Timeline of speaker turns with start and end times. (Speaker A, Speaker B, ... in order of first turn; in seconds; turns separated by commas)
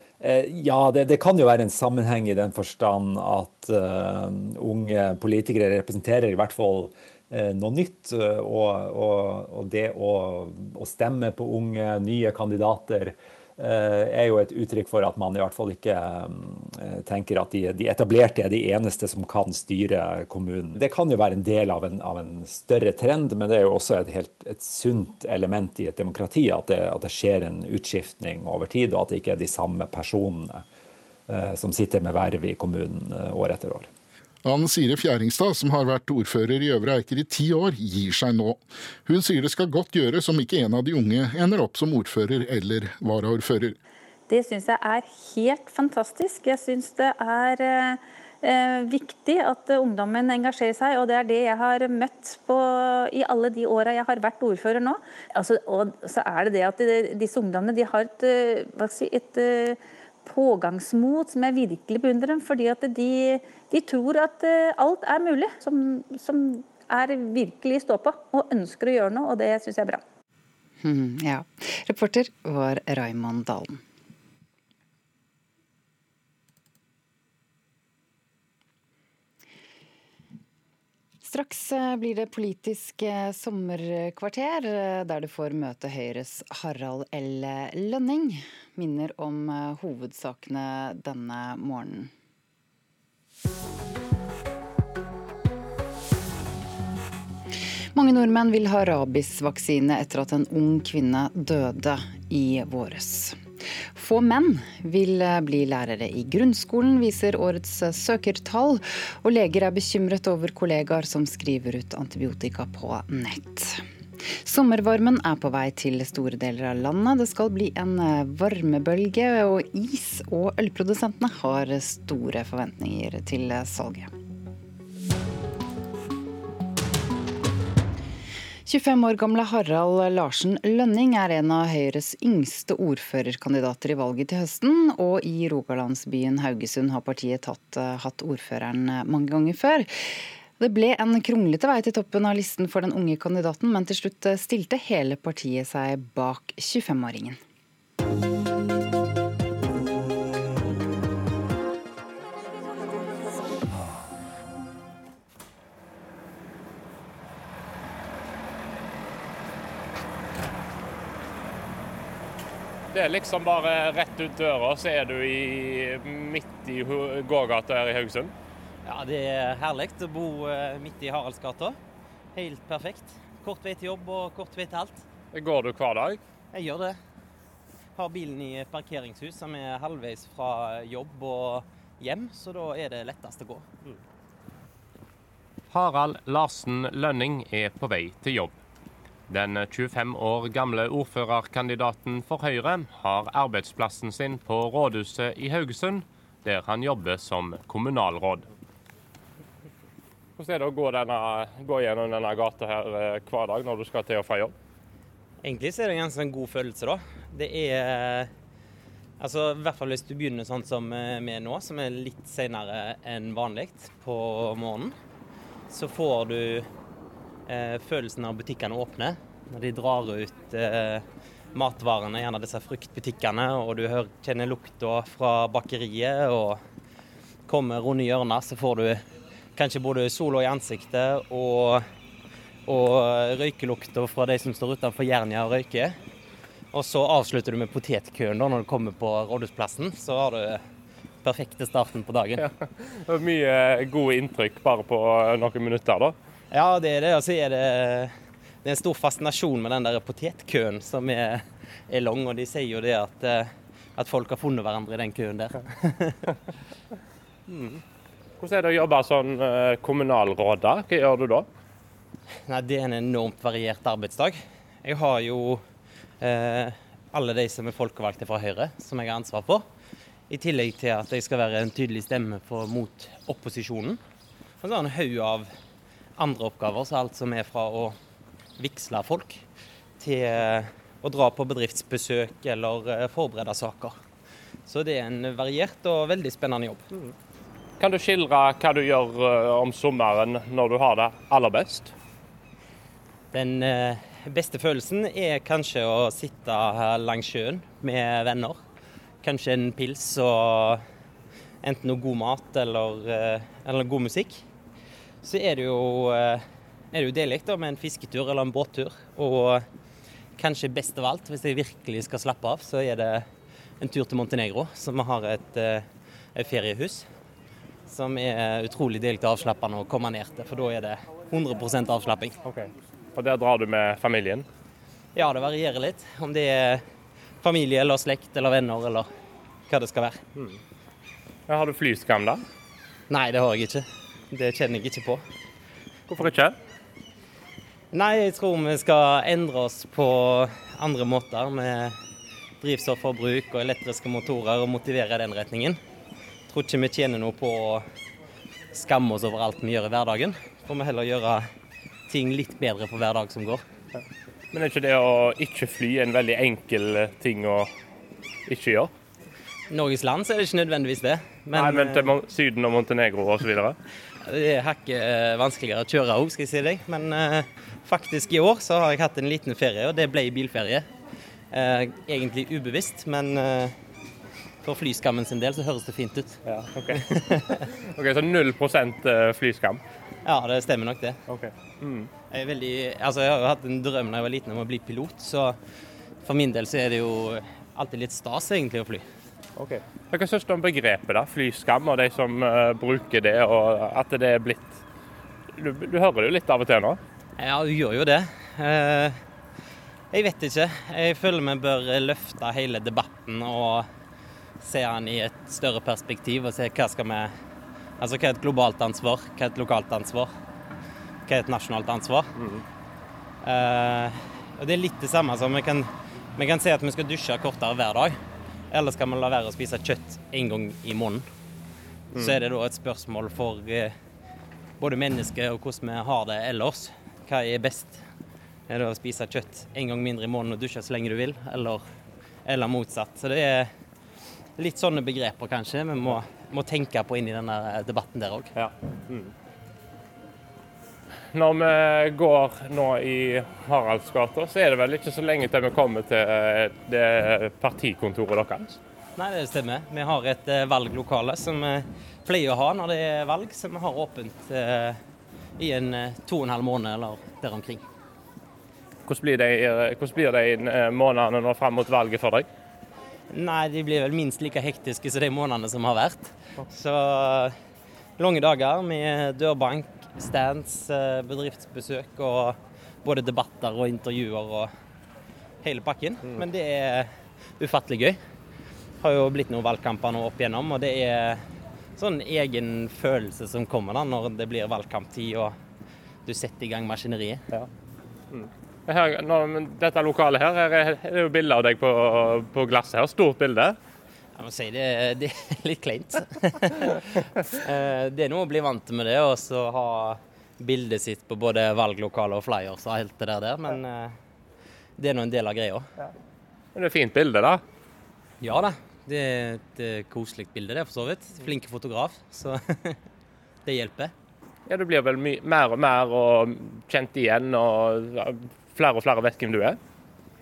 Speaker A: 0.2-30.6, Speaker A: 31.3-33.9, Speaker B: 34.5-43.8, Speaker C: 44.3-70.0, Speaker D: 70.8-73.8, Speaker D: 81.2-92.1, Speaker D: 97.9-124.1, Speaker D: 128.7-147.4, Speaker E: 162.9-168.3, Speaker F: 168.9-171.8, Speaker F: 172.3-175.0, Speaker E: 175.3-176.2, Speaker F: 176.5-177.0, Speaker F: 178.0-183.7, Speaker E: 185.7-188.6, Speaker E: 189.3-198.5, Speaker E: 200.4-204.5, Speaker F: 205.4-208.3, Speaker F: 209.2-214.9, Speaker F: 215.7-216.7, Speaker F: 217.5-226.6, Speaker F: 227.5-229.0, Speaker F: 229.6-231.9, Speaker F: 232.7-236.0, Speaker F: 236.7-240.6, Speaker F: 241.2-242.4, Speaker E: 242.4-246.2, Speaker F: 246.5-256.2, Speaker E: 257.5-257.8, Speaker E: 258.4-261.5, Speaker F: 262.5-265.6, Speaker F: 266.2-269.6, Speaker F: 270.3-274.0, Speaker F: 274.6-275.5, Speaker F: 276.2-278.0, Speaker F: 278.6-279.4, Speaker F: 280.0-284.0, Speaker F: 284.7-286.8, Speaker E: 287.8-291.9, Speaker F: 293.3-298.6, Speaker F: 299.2-300.8, Speaker F: 301.6-304.4, Speaker F: 305.2-309.6, Speaker F: 310.4-313.3, Speaker F: 313.8-317.1, Speaker F: 317.9-322.4, Speaker E: 322.4-324.5, Speaker F: 325.1-326.8, Speaker F: 327.4-329.1, Speaker F: 329.7-330.2, Speaker E: 331.5-332.4, Speaker F: 333.1-335.2, Speaker E: 336.1-336.6, Speaker F: 337.9-342.0, Speaker F: 342.6-345.8, Speaker F: 346.5-347.9, Speaker F: 348.7-351.5, Speaker F: 352.1-353.6, Speaker E: 354.5-357.7, Speaker E: 358.5-358.9, Speaker F: 359.7-362.1, Speaker E: 361.5-363.8, Speaker F: 364.2-370.9, Speaker F: 371.5-373.8, Speaker F: 374.6-376.4, Speaker E: 376.4-377.2, Speaker F: 377.0-377.6, Speaker E: 377.9-379.8, Speaker F: 380.2-381.2, Speaker E: 381.3-382.1, Speaker F: 382.3-385.6, Speaker F: 386.2-389.1, Speaker E: 389.6-394.8, Speaker E: 395.6-397.0, Speaker F: 397.4-399.2, Speaker F: 400.1-403.9, Speaker F: 404.6-407.3, Speaker F: 408.0-410.3, Speaker F: 411.3-412.3, Speaker E: 412.4-412.6, Speaker F: 413.4-418.2, Speaker F: 418.7-421.3, Speaker F: 422.2-423.9, Speaker F: 424.8-428.0, Speaker F: 428.7-431.8, Speaker F: 432.5-433.7, Speaker F: 434.6-438.5, Speaker E: 438.6-439.3, Speaker E: 441.3-448.8, Speaker F: 449.2-455.0, Speaker F: 455.6-457.8, Speaker E: 459.1-462.5, Speaker F: 463.3-467.6, Speaker F: 468.2-474.7, Speaker F: 475.6-478.2, Speaker F: 479.0-481.4, Speaker F: 482.0-485.6, Speaker F: 486.3-487.4, Speaker E: 488.3-493.8, Speaker F: 494.4-497.0, Speaker F: 497.6-504.2, Speaker F: 505.0-505.9, Speaker E: 506.8-507.6, Speaker F: 508.4-513.0, Speaker F: 513.6-514.1, Speaker E: 514.7-519.8